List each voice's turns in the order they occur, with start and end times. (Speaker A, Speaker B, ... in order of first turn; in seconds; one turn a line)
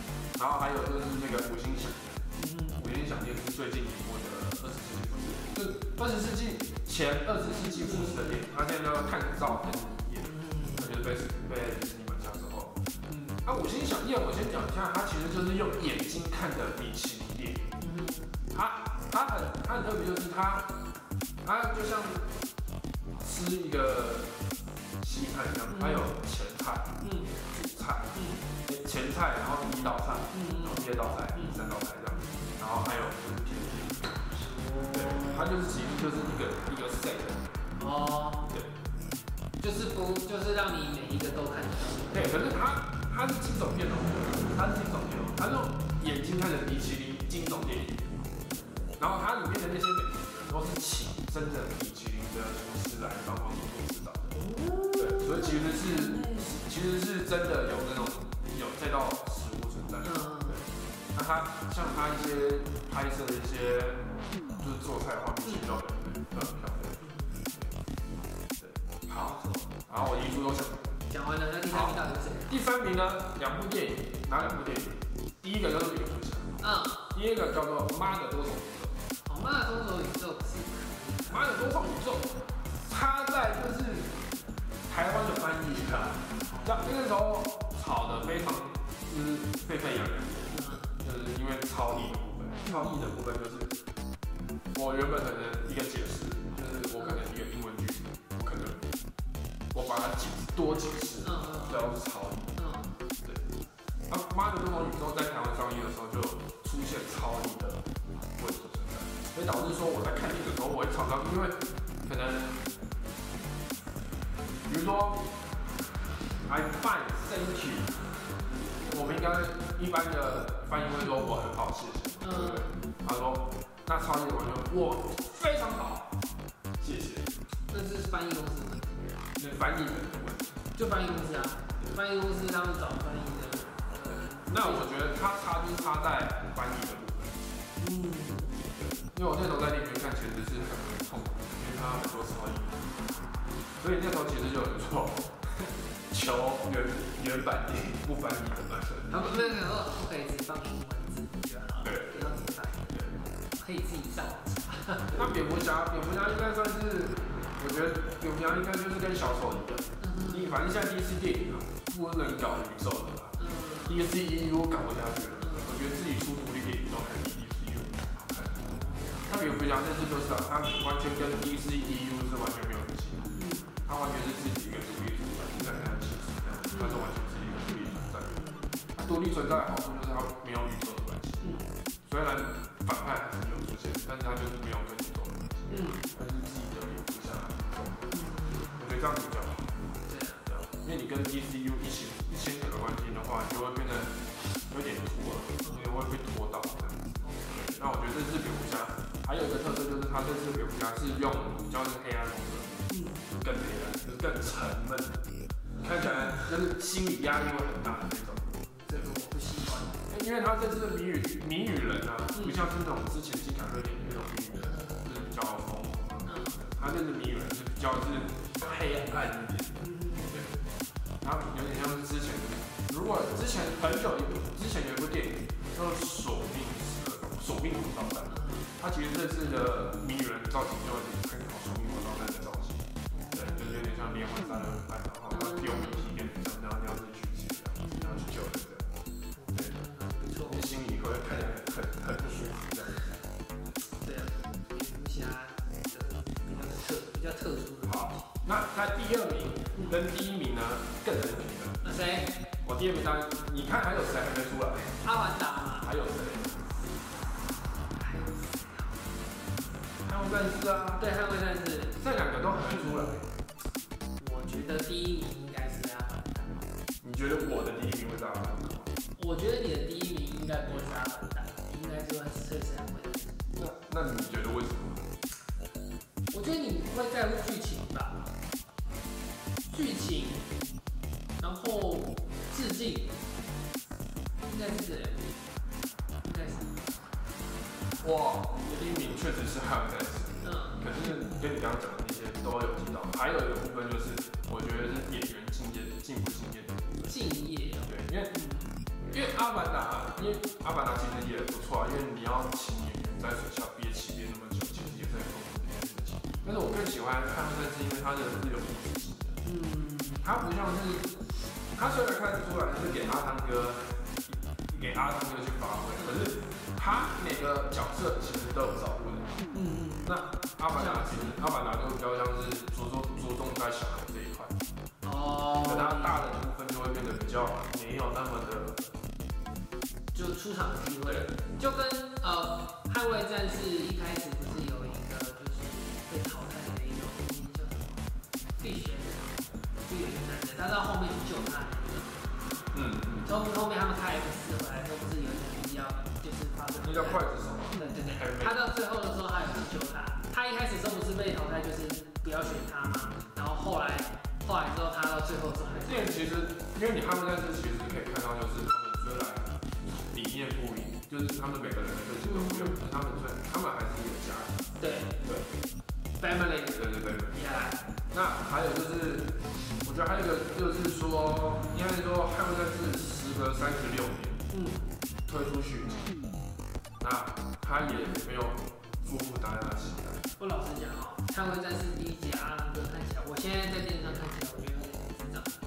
Speaker A: 0.3-12.8
Speaker B: 2.4-2.8
Speaker B: 7.7-8.4
Speaker B: 10.2-11.0
Speaker B: 13.1-13.4
Speaker A: 13.4-17.7
Speaker B: 17.8-18.4
Speaker A: 18.5-20.7
Speaker A: 21.4-22.3
Speaker A: 23.2-24.3
Speaker A: 25.0-26.9
Speaker B: 25.7-26.1
Speaker B: 27.0-27.4
Speaker A: 27.5-34.2
Speaker B: 28.1-28.5
Speaker B: 30.3-32.6
Speaker B: 34.3-35.5
Speaker A: 34.9-37.5
Speaker B: 37.8-38.6
Speaker B: 39.6-42.3
Speaker A: 42.1-48.2
Speaker A: 49.0-54.4
Speaker B: 54.3-56.6
Speaker A: 55.0-67.8
Speaker B: 60.0-60.7
Speaker B: 65.4-65.7
Speaker B: 66.4-67.4
Speaker A: 68.6-71.0
Speaker B: 69.1-69.7
Speaker B: 71.1-72.5
Speaker A: 71.7-76.6
Speaker B: 76.6-77.1
Speaker A: 77.1-78.9
Speaker B: 79.2-82.0
Speaker A: 81.3-84.2
Speaker A: 84.9-93.8
Speaker B: 86.4-87.0
Speaker B: 90.5-90.9
Speaker B: 92.6-92.9
Speaker A: 94.7-98.8
Speaker B: 97.0-97.2
Speaker A: 99.7-102.5
Speaker B: 101.2-101.9
Speaker B: 102.5-102.9
Speaker A: 104.1-107.8
Speaker A: 108.4-112.6
Speaker A: 114.7-115.3
Speaker A: 116.5-118.0
Speaker A: 118.8-126.1
Speaker B: 122.2-122.8
Speaker A: 126.8-127.3
Speaker B: 127.7-129.2
Speaker A: 129.4-130.6
Speaker B: 130.7-134.9
Speaker A: 134.1-137.6
Speaker B: 137.8-138.7
Speaker A: 138.8-142.9
Speaker A: 143.8-149.1
Speaker B: 149.1-155.3
Speaker A: 151.8-153.2
Speaker A: 155.1-168.7
Speaker B: 160.0-160.6
Speaker B: 163.4-164.1
Speaker B: 165.4-165.8
Speaker B: 168.6-169.4
Speaker A: 169.2-173.3
Speaker B: 173.3-173.8
Speaker A: 173.8-178.3
Speaker B: 175.6-175.9
Speaker B: 176.7-177.0
Speaker B: 177.7-178.9
Speaker A: 178.9-189.7
Speaker B: 181.4-181.7
Speaker B: 185.7-186.1
Speaker B: 188.1-188.8
Speaker B: 190.1-190.4
Speaker A: 190.4-209.1
Speaker B: 197.2-197.8
Speaker B: 202.9-203.2
Speaker B: 208.6-210.0
Speaker A: 210.1-220.5
Speaker B: 212.3-212.6
Speaker B: 214.5-215.1
Speaker B: 216.2-216.6
Speaker B: 219.8-220.7
Speaker A: 221.2-238.9
Speaker B: 228.3-228.7
Speaker B: 233.1-233.7
Speaker B: 235.3-236.1
Speaker B: 237.8-238.3
Speaker B: 239.3-240.7
Speaker A: 240.4-243.1
Speaker B: 244.0-248.3
Speaker A: 247.8-251.8
Speaker B: 249.7-250.0
Speaker B: 251.8-252.4
Speaker A: 252.6-255.0
Speaker B: 255.0-255.9
Speaker A: 255.8-256.7
Speaker B: 257.9-259.1
Speaker A: 260.0-261.0
Speaker B: 260.9-262.0
Speaker A: 261.9-263.3
Speaker B: 264.2-266.6
Speaker A: 267.0-268.9
Speaker B: 269.1-273.4
Speaker A: 273.6-275.1
Speaker B: 276.3-278.2
Speaker B: 279.7-280.5
Speaker B: 281.4-283.1
Speaker B: 284.4-285.3
Speaker B: 286.2-286.9
Speaker A: 288.0-297.1
Speaker B: 290.4-291.2
Speaker B: 297.0-298.8
Speaker A: 297.9-298.3
Speaker A: 299.1-309.4
Speaker B: 304.8-305.1
Speaker B: 306.3-306.7
Speaker B: 309.4-310.2
Speaker A: 310.2-319.4
Speaker B: 316.0-316.4
Speaker B: 319.5-321.4
Speaker A: 320.0-324.6
Speaker B: 325.0-326.4
Speaker A: 325.6-328.8
Speaker B: 330.1-338.0
Speaker A: 331.0-331.3
Speaker B: 338.6-342.2
Speaker A: 342.7-343.3
Speaker B: 343.2-356.2
Speaker A: 346.8-348.6
Speaker A: 355.8-364.7
Speaker B: 362.2-362.8
Speaker B: 364.8-365.1
Speaker A: 365.2-365.5
Speaker B: 366.2-367.8
Speaker A: 366.7-367.5
Speaker A: 368.1-374.4
Speaker B: 374.5-374.9
Speaker A: 375.3-376.2
Speaker A: 377.0-380.2
Speaker B: 380.4-385.5